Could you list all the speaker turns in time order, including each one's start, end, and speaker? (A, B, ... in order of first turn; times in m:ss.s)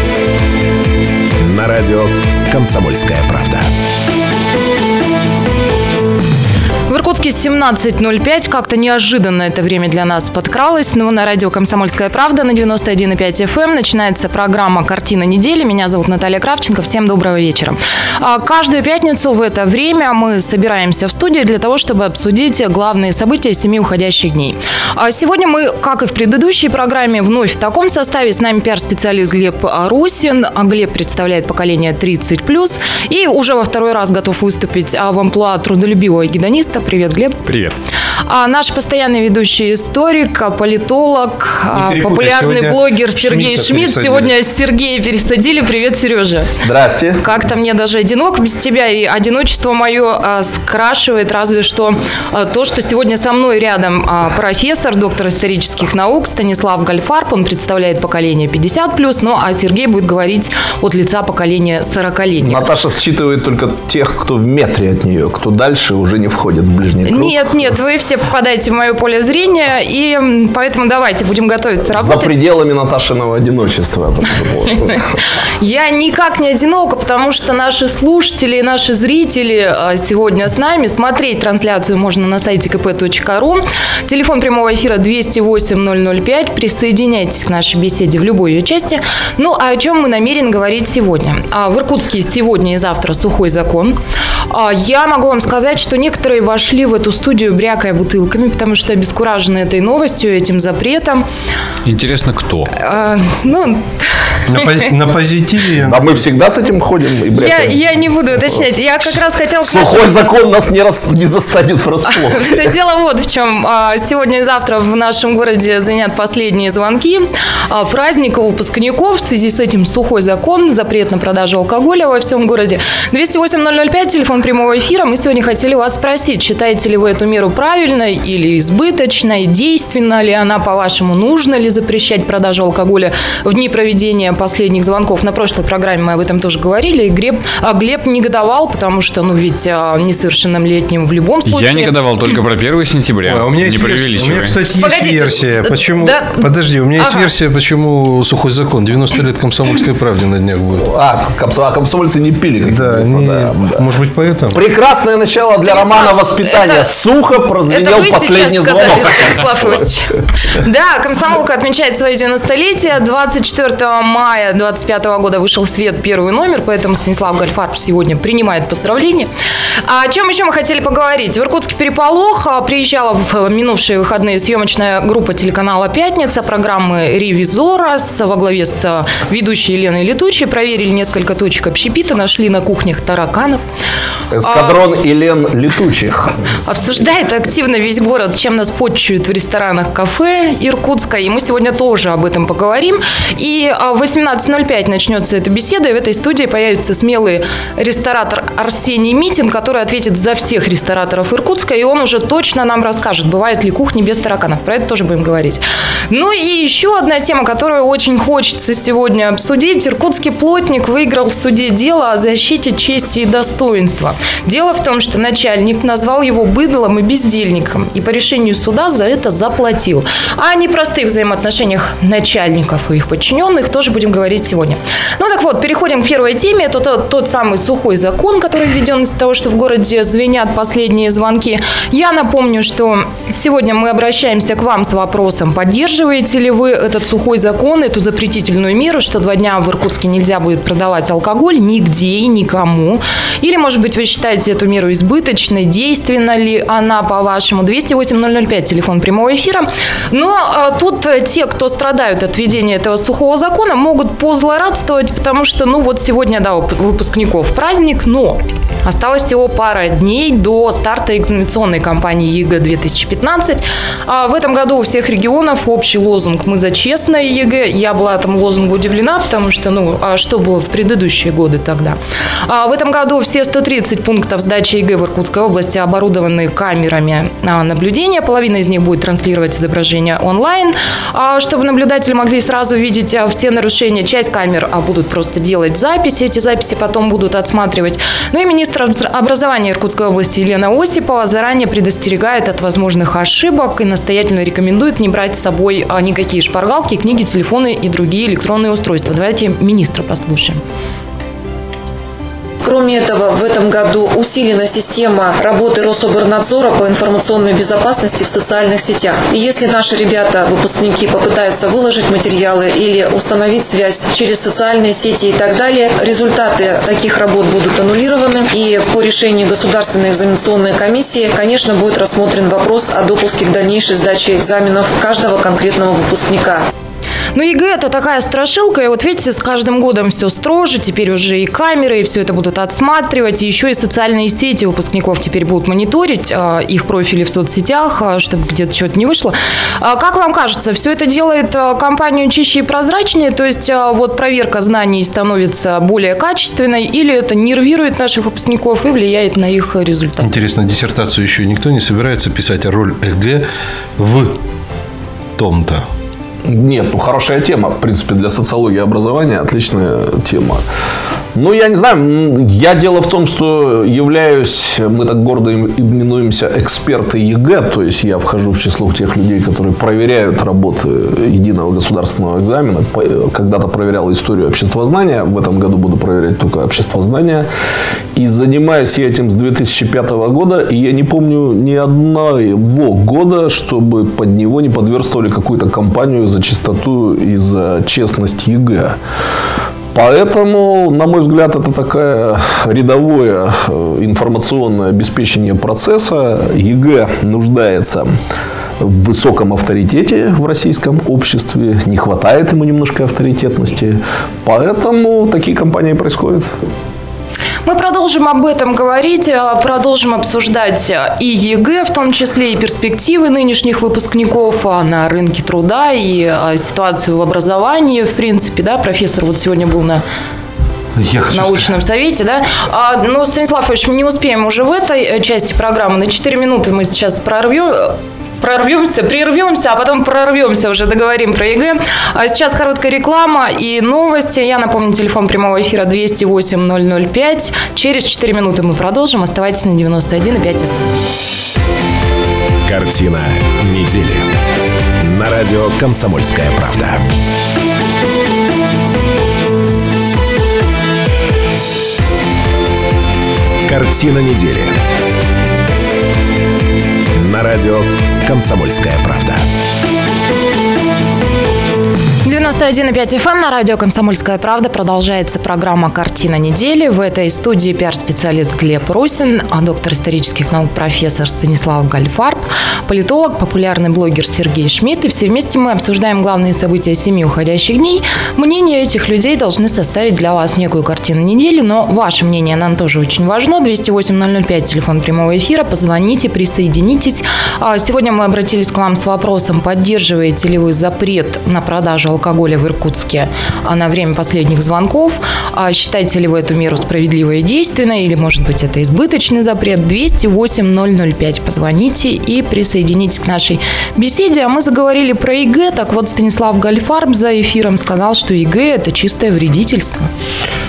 0:01.4-0:03.7 A
0:06.9-0:37.4 B
0:37.4-0:37.8 C
0:38.3-0:46.5 B
0:41.7-0:44.3 D
0:46.6-0:47.2 E
0:47.2-1:02.6 B
1:02.4-1:07.6 E
1:07.0-1:12.4 B
1:11.9-1:15.1 E
1:15.6-1:34.0 B
1:34.5-1:41.2 B
1:41.8-1:42.7 C
1:42.8-1:44.0 B
1:44.5-1:46.1 D
1:45.8-1:47.8 E
1:47.3-1:50.1 B
1:49.6-1:52.7 E
1:52.1-2:21.9 B
2:21.4-2:24.6 C
2:23.3-2:30.9 D
2:24.7-2:27.3 B
2:30.8-2:33.8 E
2:32.6-2:34.6 D
2:34.5-2:39.4 E
2:35.4-2:36.9 B
2:37.7-2:49.3 B
2:49.8-3:03.6 B
3:04.3-3:06.3 E
3:04.4-3:04.8 B
3:06.7-5:00.6 B
5:02.6-5:26.7 F
5:27.4-5:50.3 B
5:50.2-5:53.5 D
5:54.0-5:54.4 D
5:55.4-5:55.8 D
5:56.4-6:00.6 E
6:01.4-6:17.5 E
6:18.2-6:29.0 E
6:29.9-6:38.1 E
6:38.8-6:46.5 E
6:47.7-7:00.0 B
7:01.0-7:01.7 D
7:01.3-7:20.8 B
7:22.6-7:24.3 A
7:25.0-7:27.0 A
7:33.6-7:34.8 A
7:37.2-7:39.5 A
7:42.2-8:30.1 B